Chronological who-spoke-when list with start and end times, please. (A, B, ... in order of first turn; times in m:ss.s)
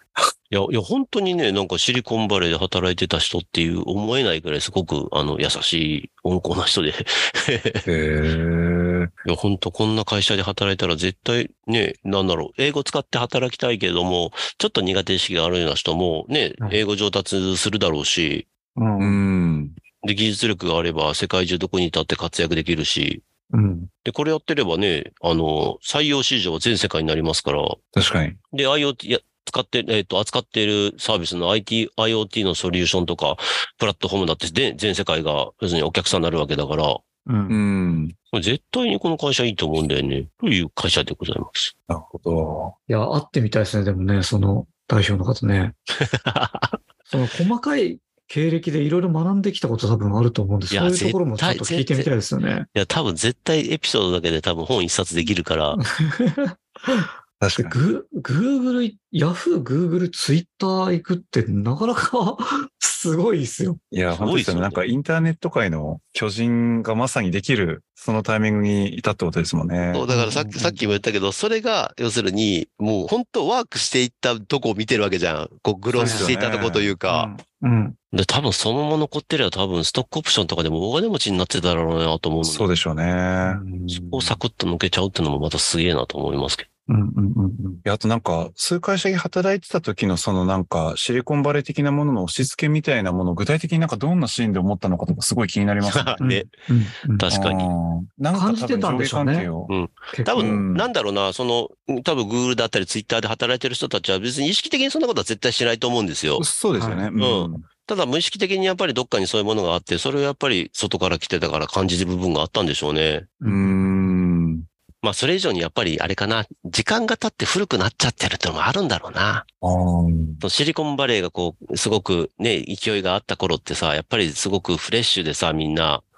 0:00.5-0:07.8 A
0:07.8-0:09.1 B
0:09.2-0:18.5 A
0:18.8-0:19.2 C
0:19.0-0:19.8 B
0:20.0-0:23.2 A
0:23.5-0:23.9 C
0:24.0-0:27.8 A
0:27.9-0:28.4 B
0:28.5-0:37.0 A
0:37.2-0:37.6 C
0:37.5-0:38.1 B
0:38.3-0:41.7 A
0:41.9-0:42.7 B
0:42.9-0:45.7 C
0:46.3-0:46.8 A
0:47.1-0:52.7 C
0:50.7-0:52.1 A
0:52.7-0:55.8 A
0:55.7-0:57.0 C
0:57.4-0:57.8 B
0:57.6-1:03.8 C
1:03.9-1:10.1 B
1:04.1-1:04.8 A
1:09.9-1:17.3 A
1:10.1-1:10.9 C
1:15.9-1:16.4 C
1:16.0-1:17.0 B
1:17.1-1:18.0 C
1:18.1-1:22.7 A
1:22.4-1:23.6 B
1:23.4-1:24.4 C
1:23.9-1:26.6 A
1:26.9-1:27.8 C
1:27.8-1:36.2 B
1:35.8-1:36.5 A
1:36.2-1:37.3 C
1:37.2-1:37.7 A
1:37.3-1:39.7 B
1:38.3-1:39.5 C
1:39.7-1:46.4 A
1:40.1-1:40.6 C
1:40.4-1:40.9 B
1:46.4-1:47.6 B
1:46.7-1:47.1 C
1:47.2-1:53.3 A
1:53.4-1:54.1 C
1:53.4-1:54.6 B
1:55.0-1:59.4 A
1:59.6-2:00.4 B
2:00.4-2:06.0 A